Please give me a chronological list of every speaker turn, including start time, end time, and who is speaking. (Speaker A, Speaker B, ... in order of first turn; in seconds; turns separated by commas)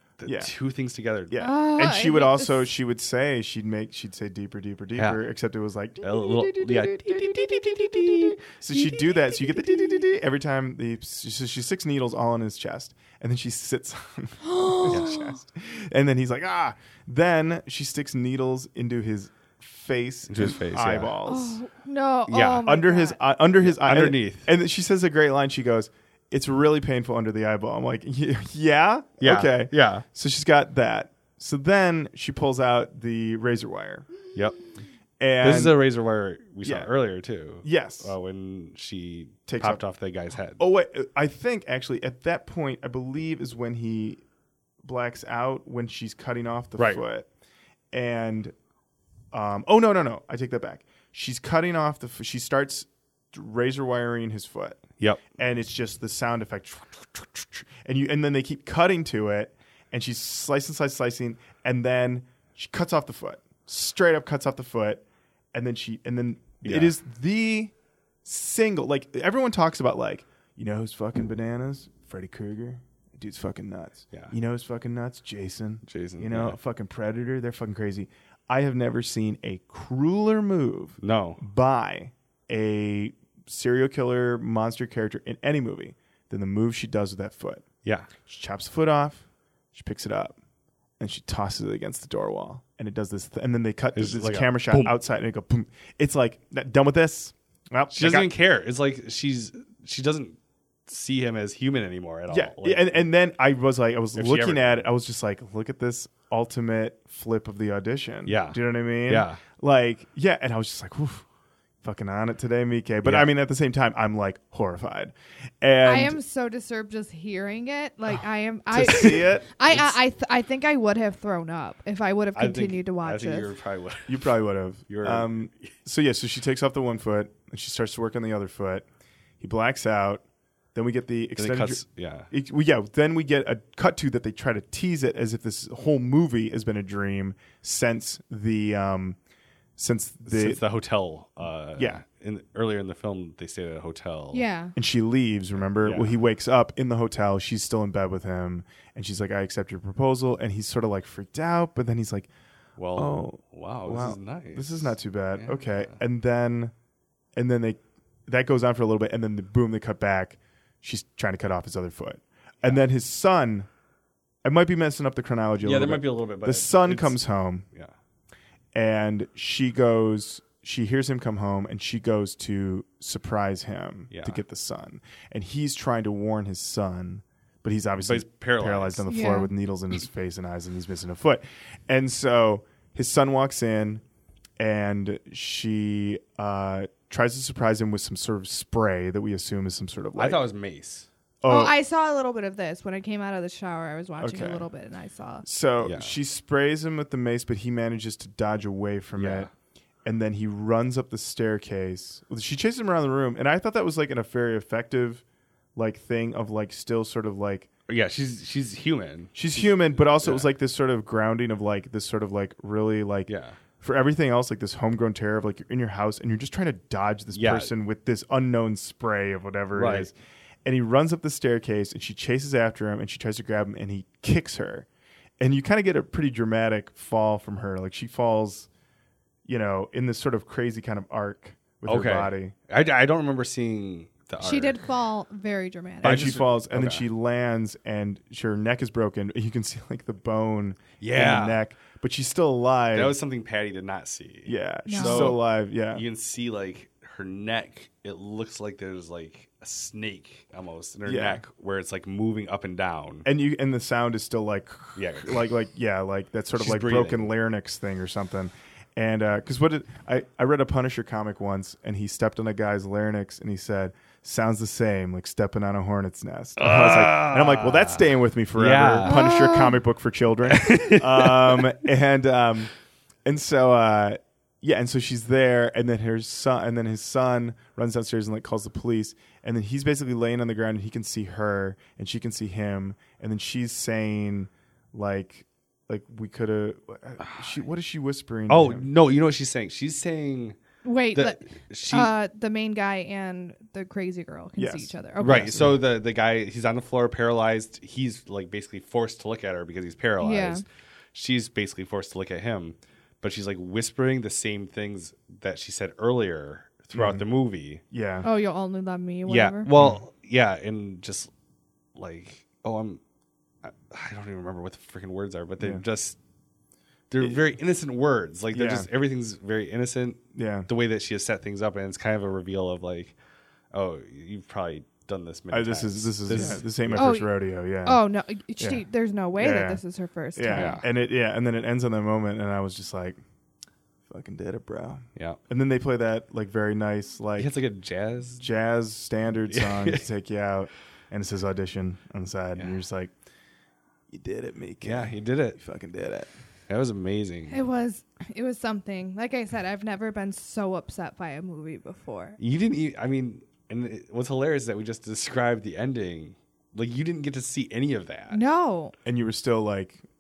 Speaker A: 0.2-1.4, Speaker B: 0.2-0.5, Speaker B: 1.3-6.1, Speaker C: 1.4-2.7, Speaker A: 6.0-8.6, Speaker C: 6.1-8.3, Speaker B: 7.7-21.6, Speaker C: 9.1-9.8, Speaker C: 14.4-15.0, Speaker A: 14.9-15.3, Speaker A: 20.3-21.2, Speaker C: 21.3-23.2, Speaker A: 22.3-22.7, Speaker B: 22.7-34.1, Speaker A: 23.6-24.5, Speaker A: 29.2-30.0, Speaker A: 34.3-34.7, Speaker B: 35.2-35.8, Speaker A: 35.4-40.6, Speaker B: 36.6-36.9, Speaker B: 37.6-38.1, Speaker B: 39.5-39.8, Speaker B: 40.6-44.2, Speaker B: 44.8-47.3, Speaker B: 47.9-48.5, Speaker B: 49.3-67.7, Speaker A: 55.0-55.2, Speaker A: 66.6-66.9, Speaker B: 68.2-87.7, Speaker A: 75.9-76.6, Speaker A: 81.0-81.4, Speaker B: 88.3-90.4, Speaker B: 91.0-98.3, Speaker A: 94.0-94.9, Speaker A: 97.9-103.1, Speaker B: 102.3-111.2, Speaker A: 104.2-104.8, Speaker A: 108.3-109.4, Speaker B: 111.8-116.2, Speaker A: 113.0-113.3, Speaker C: 115.8-123.5, Speaker B: 118.7-119.9, Speaker A: 122.4-124.3, Speaker B: 124.1-128.9, Speaker A: 124.9-125.7, Speaker B: 129.4-130.2, Speaker B: 130.8-139.2, Speaker A: 131.4-132.3, Speaker B: 139.8-140.6, Speaker A: 140.3-144.4, Speaker B: 141.8-142.0, Speaker C: 144.3-144.7, Speaker B: 144.8-152.3, Speaker A: 145.8-146.1, Speaker A: 152.8-155.9, Speaker B: 152.9-156.7, Speaker B: 157.4-163.7, Speaker B: 164.4-167.7, Speaker A: 165.6-167.2, Speaker B: 168.8-184.0, Speaker A: 174.1-174.4, Speaker A: 178.0-179.1, Speaker C: 179.1-179.5, Speaker B: 184.6-190.4, Speaker A: 190.2-191.1, Speaker B: 191.4-191.8, Speaker C: 191.5-195.5, Speaker B: 194.2-194.7, Speaker B: 195.4-199.5, Speaker A: 195.8-196.2, Speaker A: 199.2-199.5, Speaker B: 200.1-205.2, Speaker B: 205.8-207.7, Speaker A: 207.9-210.5, Speaker B: 209.3-220.1, Speaker A: 213.3-213.6, Speaker A: 217.3-217.7, Speaker A: 219.8-220.1, Speaker B: 220.7-224.9, Speaker B: 225.4-228.7, Speaker B: 229.4-232.5, Speaker A: 231.9-234.8, Speaker C: 234.4-236.4, Speaker A: 236.0-237.1, Speaker B: 236.0-243.2, Speaker A: 241.0-241.6, Speaker A: 242.9-253.3, Speaker B: 244.5-246.0, Speaker C: 244.9-245.4, Speaker B: 251.1-251.4, Speaker B: 253.2-272.7, Speaker A: 255.0-255.4, Speaker A: 256.6-257.3, Speaker A: 266.6-269.2, Speaker C: 269.1-269.8, Speaker A: 270.5-271.8, Speaker B: 273.2-288.9, Speaker A: 287.2-287.6, Speaker A: 288.5-290.6, Speaker C: 290.8-295.7, Speaker A: 291.1-292.1, Speaker B: 294.6-295.8, Speaker A: 295.2-307.8, Speaker C: 300.2-300.6, Speaker B: 306.9-307.2, Speaker B: 307.9-308.3, Speaker C: 308.2-309.7, Speaker A: 309.3-311.3, Speaker B: 309.7-310.0, Speaker A: 311.9-313.0, Speaker A: 313.6-316.2, Speaker A: 317.1-323.1, Speaker B: 318.5-318.9, Speaker B: 320.4-320.7, Speaker A: 323.7-327.1, Speaker B: 325.5-328.0, Speaker C: 326.9-327.3, Speaker C: 327.8-330.8, Speaker B: 329.4-329.8, Speaker B: 330.4-333.2, Speaker A: 330.5-330.9, Speaker B: 334.1-337.5, Speaker A: 337.4-338.4, Speaker B: 338.4-343.1, Speaker A: 339.5-340.0, Speaker B: 344.1-346.3, Speaker A: 344.8-345.6, Speaker A: 346.7-347.6, Speaker C: 347.5-352.4, Speaker A: 352.4-358.4, Speaker C: 358.3-358.9, Speaker B: 359.1-360.0